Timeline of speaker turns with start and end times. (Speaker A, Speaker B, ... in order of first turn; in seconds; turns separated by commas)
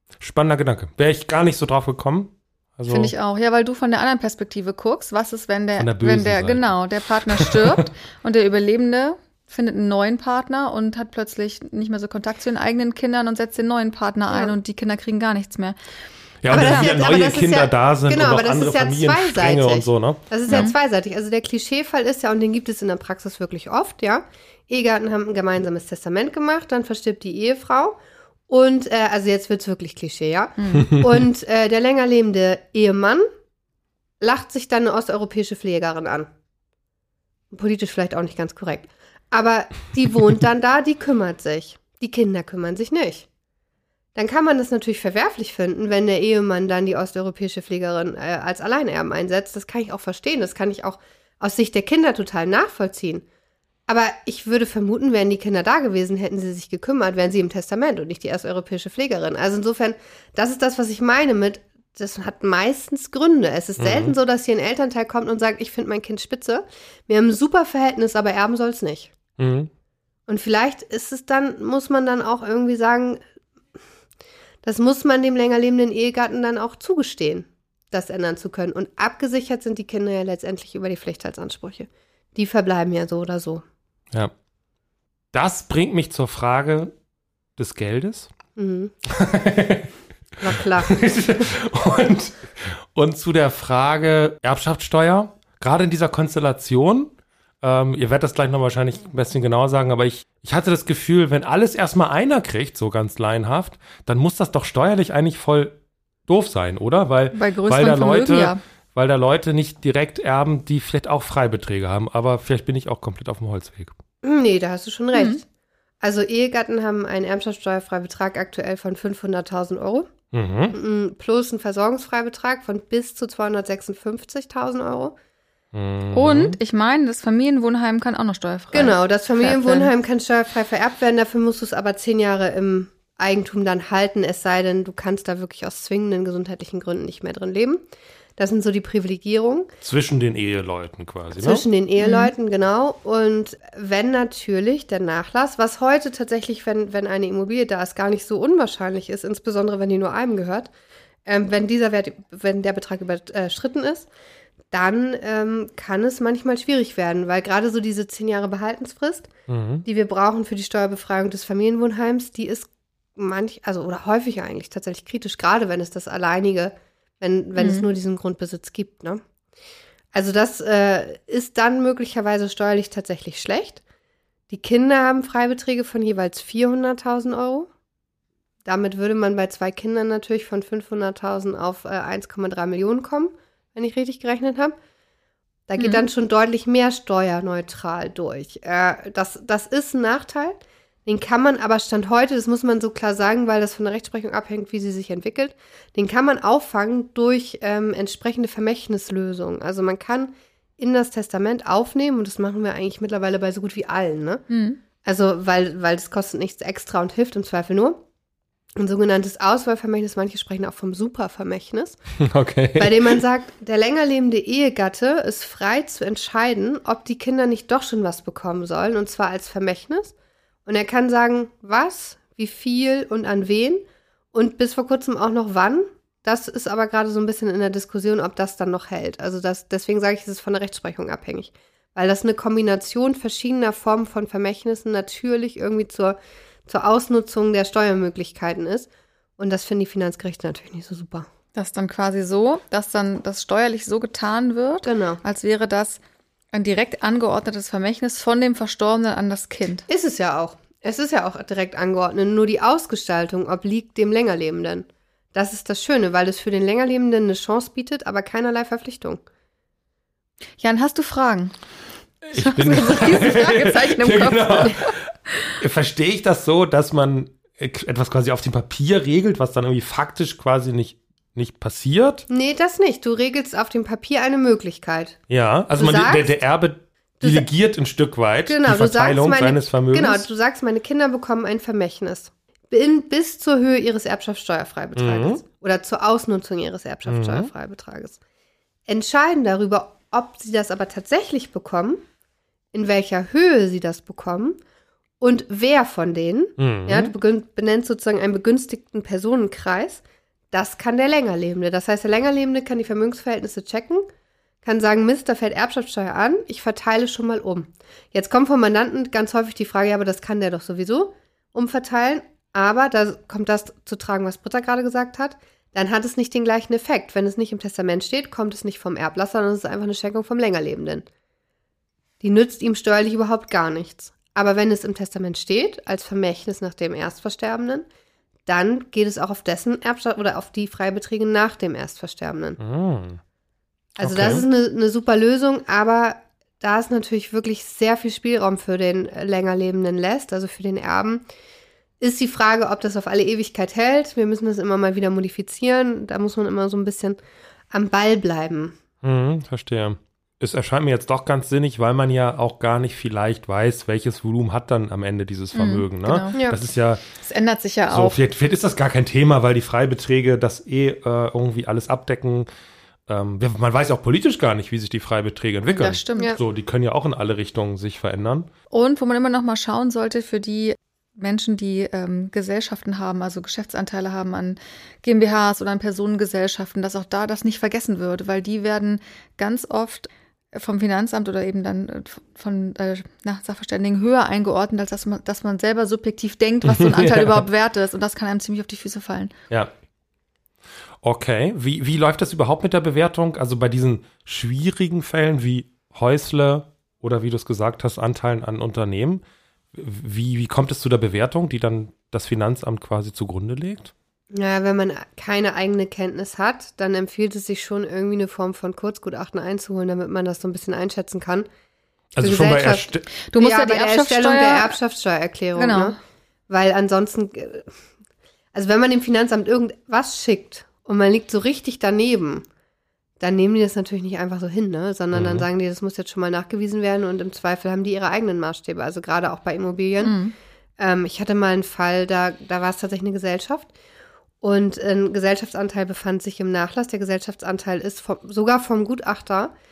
Speaker A: 0.2-3.1, Speaker B: 2.9-15.8, Speaker A: 5.8-6.7, Speaker A: 7.4-7.7, Speaker A: 16.4-20.7, Speaker B: 16.5-16.9, Speaker C: 16.5-33.3, Speaker B: 20.5-20.7, Speaker B: 30.6-30.9, Speaker C: 34.2-36.3, Speaker C: 37.5-43.3, Speaker C: 44.1-53.2, Speaker C: 53.9-69.1, Speaker A: 63.8-64.1, Speaker A: 69.4-69.7, Speaker C: 70.3-73.2, Speaker C: 74.6-83.6, Speaker A: 85.3-86.9, Speaker A: 87.6-88.3, Speaker C: 88.5-88.9, Speaker A: 89.0-89.9, Speaker C: 90.4-90.9, Speaker A: 90.5-114.0, Speaker B: 107.3-108.6, Speaker C: 114.2-115.4, Speaker B: 115.1-115.4, Speaker C: 116.0-120.1, Speaker A: 120.3-120.8, Speaker C: 120.7-125.1, Speaker A: 125.7-126.6, Speaker B: 126.1-129.9, Speaker C: 128.7-137.8, Speaker C: 138.4-139.7, Speaker A: 139.8-141.7, Speaker C: 141.4-150.7, Speaker B: 142.0-142.3, Speaker C: 151.2-154.1, Speaker C: 154.7-159.3, Speaker A: 159.5-159.8, Speaker C: 159.8-169.2, Speaker B: 167.6-167.8, Speaker C: 170.1-173.8, Speaker C: 174.5-177.7, Speaker C: 178.6-184.7, Speaker C: 185.7-204.5, Speaker B: 185.8-186.0, Speaker B: 204.5-204.8, Speaker C: 205.0-208.0, Speaker C: 208.8-212.0, Speaker A: 212.2-213.2, Speaker C: 212.8-220.1, Speaker C: 220.7-223.8, Speaker C: 224.3-241.3, Speaker B: 241.6-246.0, Speaker C: 244.8-245.2, Speaker B: 246.5-249.8, Speaker C: 249.9-259.2, Speaker B: 260.6-261.5, Speaker A: 262.2-272.2, Speaker B: 262.3-265.5, Speaker C: 272.3-275.2, Speaker A: 275.3-280.2, Speaker C: 275.8-276.4, Speaker C: 277.2-277.5, Speaker C: 278.5-288.2, Speaker A: 284.9-285.4, Speaker A: 287.1-287.5, Speaker C: 288.9-292.0, Speaker C: 292.7-294.6, Speaker C: 295.2-304.1, Speaker A: 296.6-297.1, Speaker C: 304.6-321.0, Speaker C: 322.2-327.8, Speaker C: 328.4-332.6, Speaker A: 332.6-333.2, Speaker C: 334.0-341.2, Speaker A: 334.0-334.4, Speaker C: 342.0-347.2, Speaker C: 347.7-348.8, Speaker A: 349.0-357.0, Speaker B: 355.5-356.4, Speaker B: 357.2-358.2, Speaker A: 357.9-362.5, Speaker A: 363.1-368.5, Speaker B: 365.7-366.4, Speaker B: 368.7-389.3, Speaker A: 386.6-387.4, Speaker A: 391.0-399.2, Speaker A: 399.7-403.9, Speaker C: 404.3-411.4, Speaker A: 412.1-413.0, Speaker C: 412.2-416.0, Speaker B: 413.3-414.8, Speaker B: 415.6-416.0, Speaker C: 416.5-417.7, Speaker C: 418.5-422.4, Speaker C: 423.2-430.2, Speaker A: 425.1-425.5, Speaker B: 430.0-430.3, Speaker C: 430.8-433.7, Speaker C: 434.4-439.5